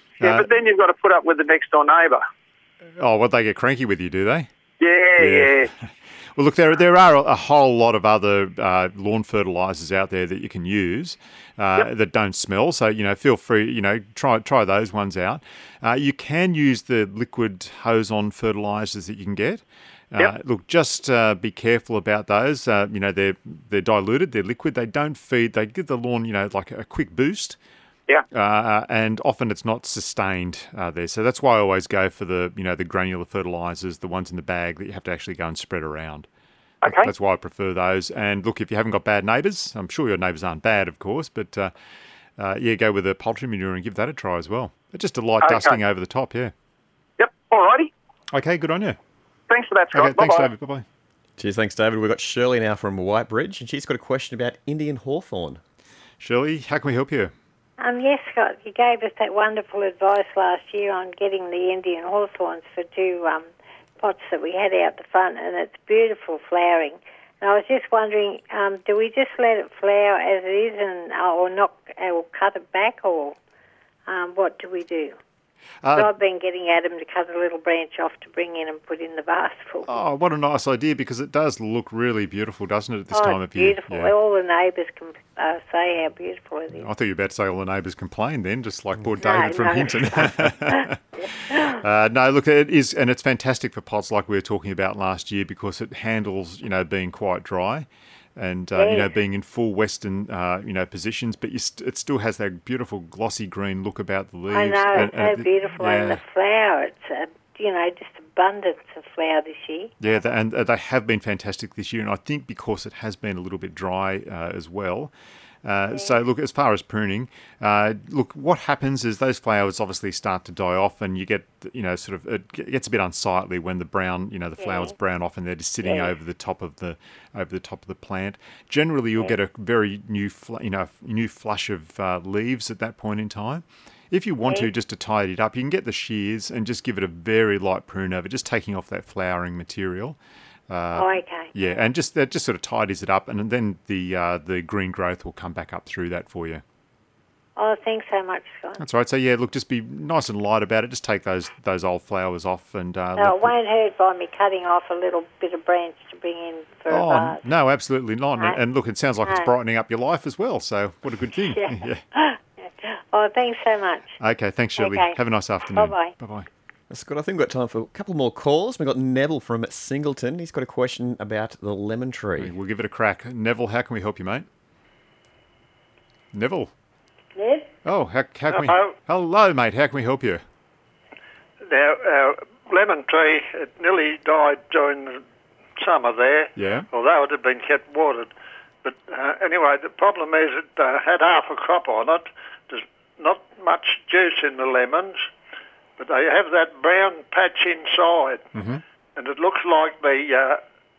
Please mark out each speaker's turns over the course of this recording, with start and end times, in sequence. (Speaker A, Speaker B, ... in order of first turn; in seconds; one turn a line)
Speaker A: 0.2-0.5
Speaker B: 0.2-2.2
Speaker A: 3.0-4.5
Speaker B: 4.8-5.7
Speaker A: 5.2-5.7
Speaker A: 6.3-27.6
Speaker A: 28.3-36.3
Speaker B: 36.8-37.1
Speaker A: 36.8-41.7
Speaker A: 42.4-46.5
Speaker B: 45.4-45.8
Speaker B: 47.2-47.9
Speaker A: 48.3-49.0
Speaker B: 49.5-50.5
Speaker A: 49.9-50.9
Speaker C: 51.4-55.6
Speaker A: 56.2-57.3
Speaker D: 57.8-63.5
Speaker D: 64.0-73.4
Speaker D: 74.1-75.2
Speaker A: 75.8-76.1
Speaker D: 75.9-79.9
Speaker A: 79.9-84.1
Speaker D: 83.1-86.9
Speaker A: 86.8-106.2
Speaker D: 89.2-91.8
Speaker D: 98.7-99.1
Speaker D: 104.5-109.9
Speaker A: 110.0-115.1
Speaker A: 115.6-140.2
Speaker D: 124.6-124.9
Speaker D: 125.8-126.1
Speaker D: 134.4-134.7
Speaker A: 140.7-146.6
Speaker D: 140.9-141.8
Speaker D: 147.6-148.8
Speaker A: 148.8-153.6
Speaker D: 153.2-157.4
Speaker A: 156.9-162.0
Speaker D: 159.2-159.5
Speaker D: 161.5-164.2
Speaker A: 164.2-166.5
Speaker D: 164.8-165.2
Speaker D: 165.7-166.1
Speaker C: 166.9-172.5
Speaker A: 172.4-174.5
Speaker A: 176.3-176.7
Speaker D: 177.3-177.7
Speaker A: 177.8-180.4
Speaker E: 178.5-178.9
Speaker E: 181.7-185.2
Speaker E: 185.8-188.3
Speaker A: 186.6-186.9
Speaker E: 188.8-195.2
Speaker E: 196.0-198.5
Speaker A: 198.6-198.8
Speaker E: 199.1-200.6